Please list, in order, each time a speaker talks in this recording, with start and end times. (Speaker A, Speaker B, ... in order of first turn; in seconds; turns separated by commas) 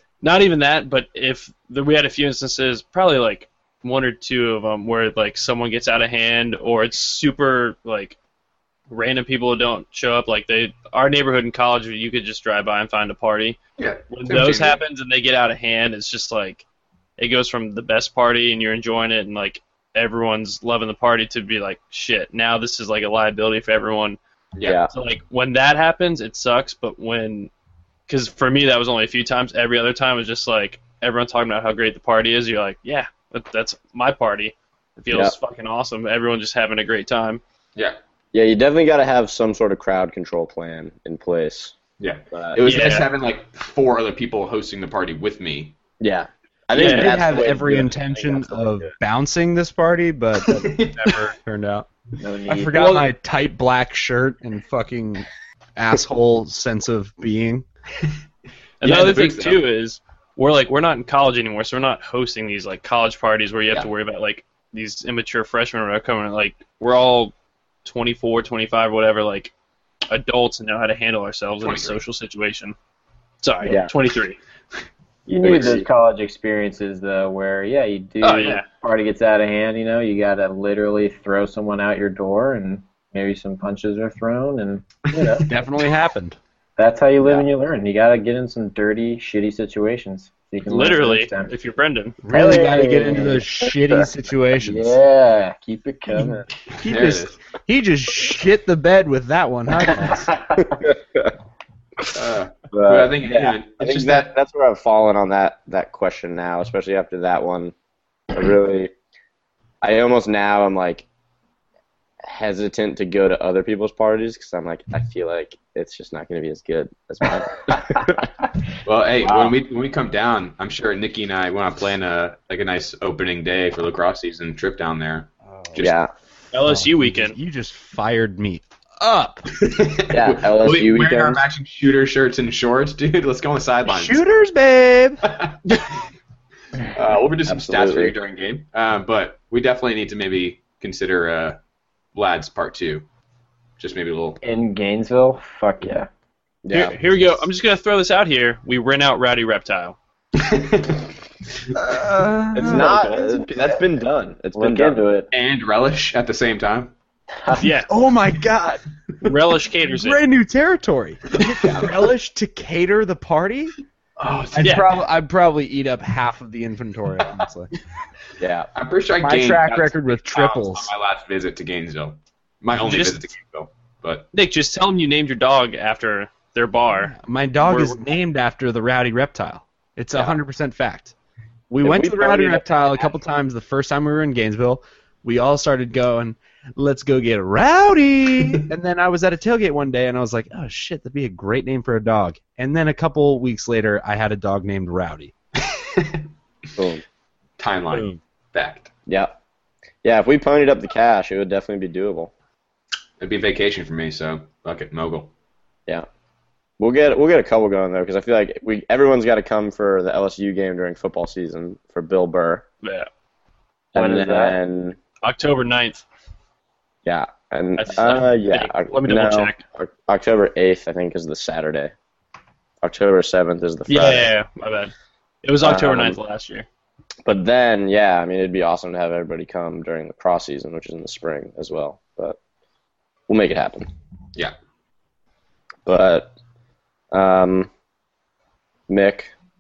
Speaker A: 0.2-8.2, Speaker A: 8.9-16.6, Speaker B: 13.8-14.8, Speaker A: 17.2-24.2, Speaker C: 24.6-24.9, Speaker A: 24.9-27.5, Speaker A: 28.1-37.4, Speaker C: 38.3-41.7, Speaker B: 42.0-45.7, Speaker C: 42.3-42.8, Speaker A: 42.6-43.1, Speaker C: 46.0-48.9, Speaker A: 46.7-47.2, Speaker D: 46.8-51.9, Speaker B: 50.4-51.1, Speaker E: 52.2-53.0, Speaker D: 52.5-57.6, Speaker A: 58.8-67.3, Speaker B: 58.8-59.6, Speaker A: 67.8-69.5, Speaker A: 70.1-72.7, Speaker B: 71.6-72.0, Speaker A: 73.4-74.4, Speaker C: 73.7-73.9, Speaker E: 75.3-85.5, Speaker C: 75.3-75.9, Speaker A: 78.2-78.7, Speaker D: 85.5-86.4, Speaker E: 86.8-91.5, Speaker A: 90.7-92.2, Speaker D: 92.2-95.0, Speaker E: 92.3-93.7, Speaker E: 94.6-96.5, Speaker B: 96.7-97.3, Speaker D: 96.8-100.3, Speaker E: 99.9-100.6, Speaker C: 100.8-101.3, Speaker B: 102.1-104.3, Speaker C: 102.7-107.7, Speaker C: 108.3-108.9, Speaker C: 109.8-111.0, Speaker C: 112.2-118.2, Speaker B: 118.8-126.0, Speaker E: 119.2-119.5, Speaker D: 125.5-125.8, Speaker C: 125.8-126.1, Speaker A: 126.5-127.4, Speaker D: 126.6-129.4, Speaker B: 129.6-134.2, Speaker C: 130.1-131.4, Speaker D: 133.9-135.2, Speaker B: 135.2-135.9, Speaker B: 136.9-141.6, Speaker C: 137.5-138.1, Speaker B: 142.1-143.1, Speaker B: 143.8-144.4, Speaker E: 144.4-146.1, Speaker C: 146.6-147.0, Speaker A: 146.7-150.0, Speaker B: 150.4-151.0, Speaker D: 151.8-152.9, Speaker C: 152.6-155.0, Speaker E: 152.6-153.8, Speaker E: 154.6-155.3, Speaker B: 155.3-156.9, Speaker E: 157.4-157.7, Speaker A: 157.6-157.9, Speaker D: 157.9-163.7, Speaker A: 159.2-160.2, Speaker B: 161.4-162.0, Speaker B: 164.2-164.9, Speaker D: 164.6-167.7, Speaker A: 164.6-164.9, Speaker C: 168.4-168.7, Speaker B: 168.7-174.3, Speaker D: 169.2-170.9, Speaker A: 172.8-173.3, Speaker A: 174.3-177.1, Speaker D: 176.9-181.1, Speaker A: 177.6-178.0, Speaker D: 181.7-195.3, Speaker C: 181.9-183.0, Speaker B: 195.7-196.2, Speaker C: 196.8-197.0, Speaker B: 197.6-198.9, Speaker C: 199.1-199.3, Speaker C: 200.0-202.3, Speaker B: 203.2-205.3, Speaker C: 206.8-212.6, Speaker A: 212.8-213.1, Speaker E: 213.9-214.6, Speaker C: 213.9-215.0, Speaker A: 215.2-216.0, Speaker C: 217.1-221.9, Speaker A: 217.8-219.6, Speaker C: 222.8-224.3, Speaker A: 223.9-224.9, Speaker A: 225.4-226.7, Speaker C: 225.6-226.2, Speaker C: 227.3-232.4, Speaker C: 233.3-233.9, Speaker C: 235.9-236.3, Speaker C: 237.1-237.7, Speaker C: 238.9-239.3